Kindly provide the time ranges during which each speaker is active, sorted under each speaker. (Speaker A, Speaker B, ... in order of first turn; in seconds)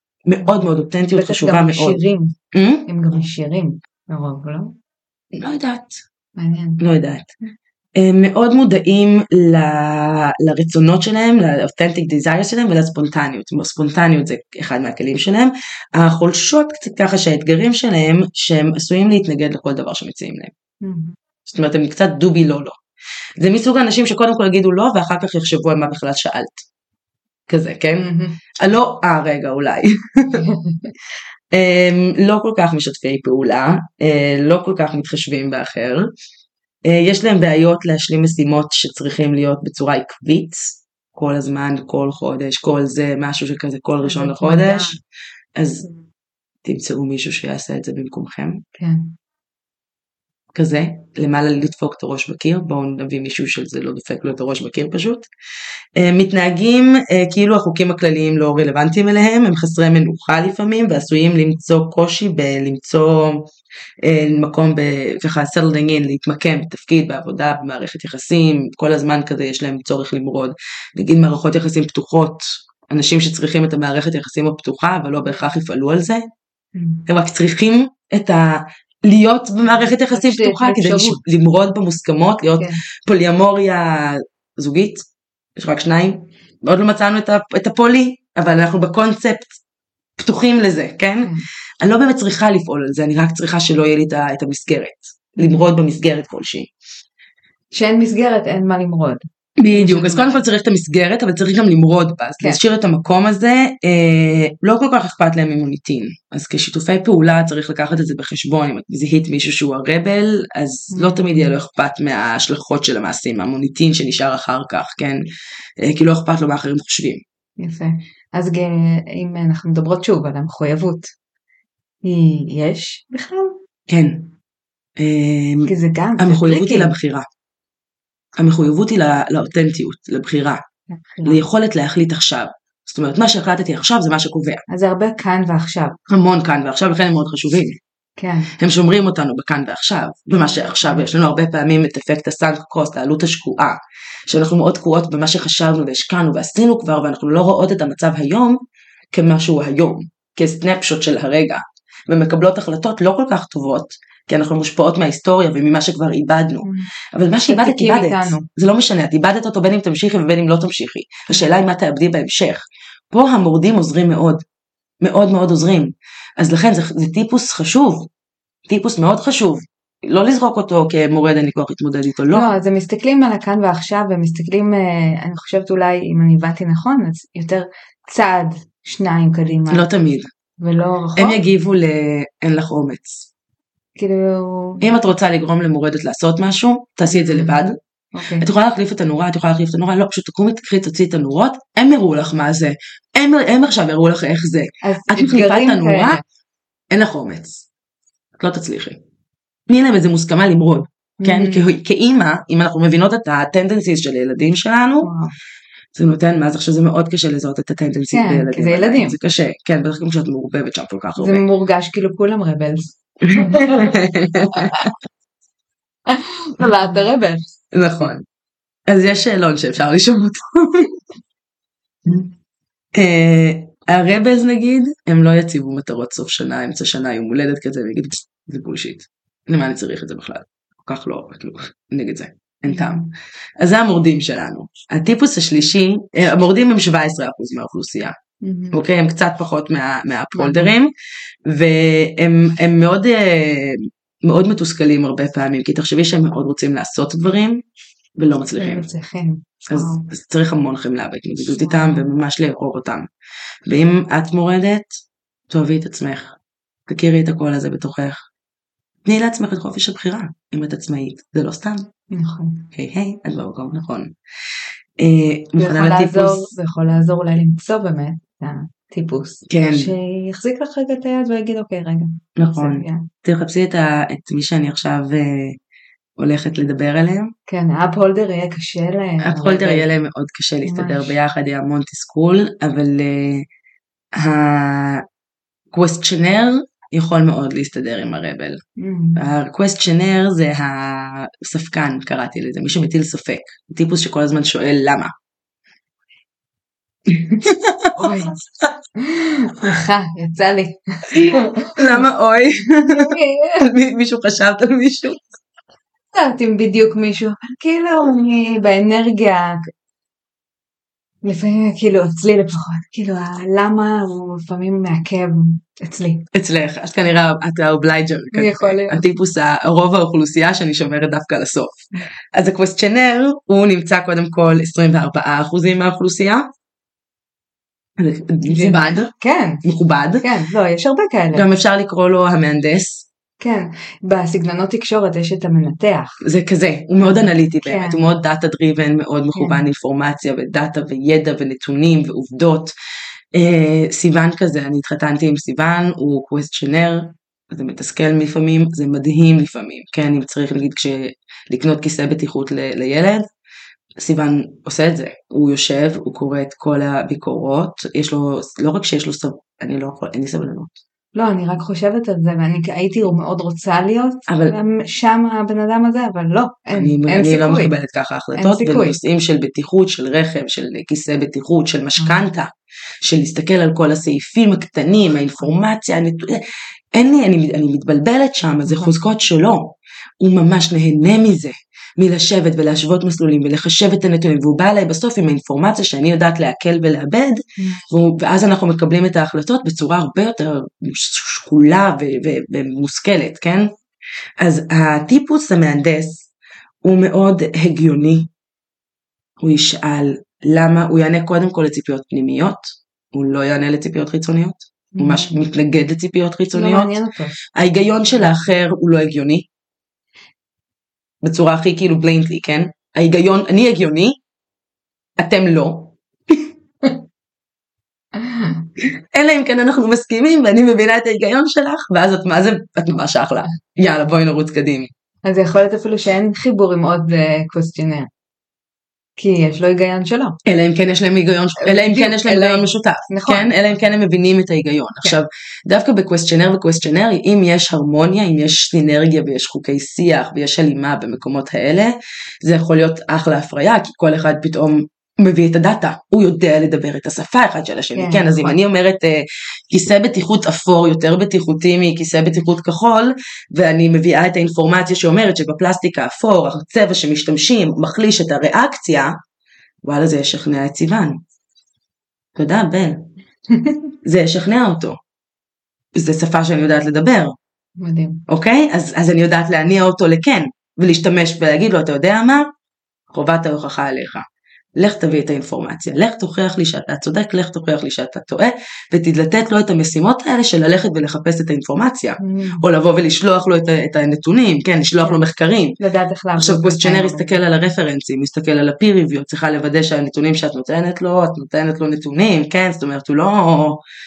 Speaker A: 0.3-2.0, 2.5-2.9, 5.3-6.0, 6.8-7.3, 8.0-20.5, 21.5-22.8, 23.4-26.6, 27.5-30.5, 31.5-36.1, 36.9-45.0, 45.6-45.9, 46.6-48.6, 50.5-55.3, 56.0-63.5, 64.0-76.2, 77.1-85.0, 85.6-89.6, 90.2-96.7, 99.6-115.3, 115.8-117.2, 123.9-124.3, 125.0-127.3, 128.4-130.6, 131.2-134.6, 136.1-137.8, 138.6-148.6, 149.1-164.4, 165.0-168.1, 168.7-172.5, 179.7-180.3, 181.2-183.3, 184.8-187.8, 188.4-196.2, 196.9-197.7, 198.4-199.0, 199.7-205.1, 205.9-211.4, 213.2-214.9, 217.7-218.2, 218.9-221.0, 222.9-233.0, 233.6-238.1, 238.7-240.9, 241.5-247.6, 248.2-248.9, 249.7-253.1, 253.7-255.0, 255.5-256.4, 256.9-258.3, 259.1-261.9, 262.7-264.1, 265.0-266.5, 269.5-269.9, 272.4-275.6, 276.2-277.3, 279.2-283.5, 284.2-285.0, 285.7-288.6, 289.2-295.1, 297.1-298.3, 301.1-305.2, 316.3-326.5, 328.0-329.1, 329.6-330.3, 331.3-333.1, 336.2-342.7, 343.3-353.3, 354.0-360.8, 364.3-364.6, 366.7-372.5, 373.0-376.4, 376.9-393.7, 394.4-396.3, 396.8-398.3, 399.4-407.0, 407.5-409.5, 411.2-414.2, 415.2-416.5, 418.8-424.9, 430.4-459.1, 459.8-461.2, 462.4-463.1, 464.1-465.0, 465.9-467.4, 468.3-472.5, 473.1-474.2, 474.8-485.8, 486.4-493.8
Speaker B: 1.1-2.4, 2.9-4.8, 6.4-6.8, 20.8-21.2, 28.0-28.4, 30.4-30.9, 44.0-45.0, 48.8-49.2, 76.8-77.0, 79.8-81.2, 95.4-95.7, 97.7-100.4, 110.9-111.6, 117.6-121.1, 122.0-123.6, 125.7-127.0, 131.0-131.4, 134.7-136.0, 138.2-138.5, 140.6-141.1, 156.6-158.5, 172.3-179.9, 180.6-181.4, 184.0-184.8, 187.1-187.6, 188.1-188.5, 194.8-196.2, 201.2-201.6, 205.0-205.3, 208.1-209.2, 211.2-213.9, 216.1-217.4, 232.7-233.1, 238.4-238.8, 240.3-240.7, 248.6-250.1, 251.6-252.1, 262.1-262.7, 265.6-273.1, 277.5-279.9, 280.6-281.1, 288.8-289.2, 298.0-298.4, 299.0-302.0, 303.0-303.7, 306.1-309.7, 311.2-316.3, 318.3-319.1, 328.4-329.6, 330.2-331.5, 333.4-336.2, 337.0-338.0, 339.3-339.6, 361.1-367.8, 368.4-369.0, 378.6-379.0, 387.6-387.9, 404.9-405.4, 406.5-407.4, 418.2-418.6, 425.2-428.1, 429.2-430.4, 431.6-433.6, 447.9-448.6, 463.5-463.8, 467.8-468.2, 482.2-482.6, 485.8-487.4